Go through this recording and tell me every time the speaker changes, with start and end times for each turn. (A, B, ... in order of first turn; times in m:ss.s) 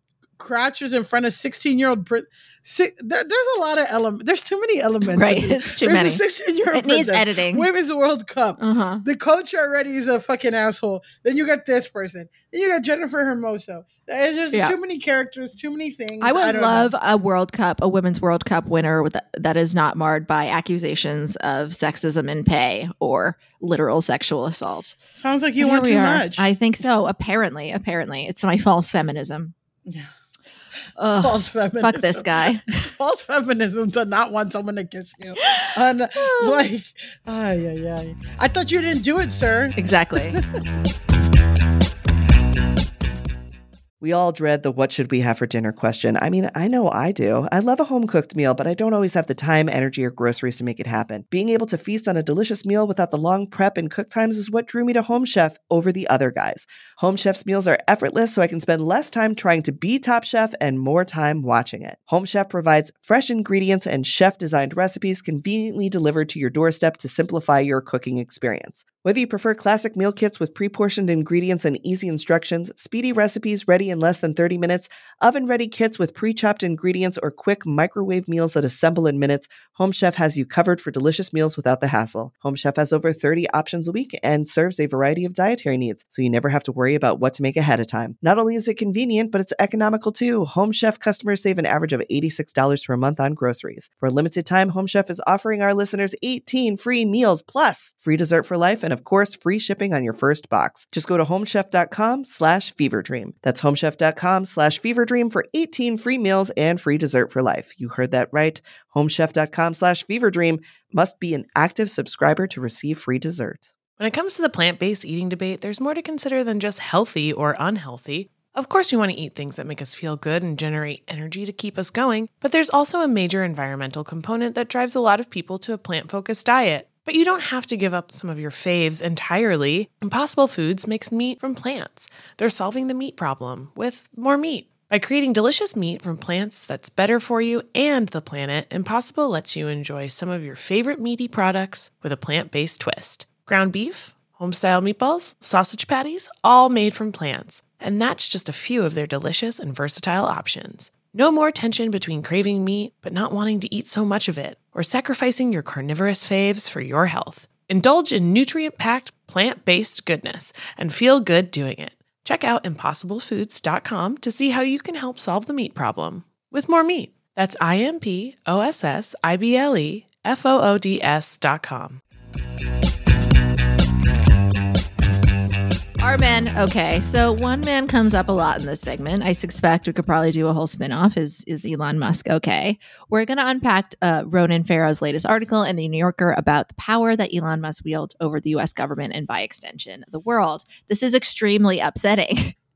0:00.4-0:16.9 A
0:05.1-0:07.7 B
0:08.6-0:09.0 B
0:16.2-0:25.0 B
0:25.2-0:26.5 A
0:25.6-0:29.5 B
0:31.0-0:32.7 B
0:31.1-0:39.8 A
0:36.2-0:36.7 B
0:39.8-0:40.4 B
0:44.0-1:53.7 C
1:54.0-2:52.0 D
2:56.0-3:12.6 B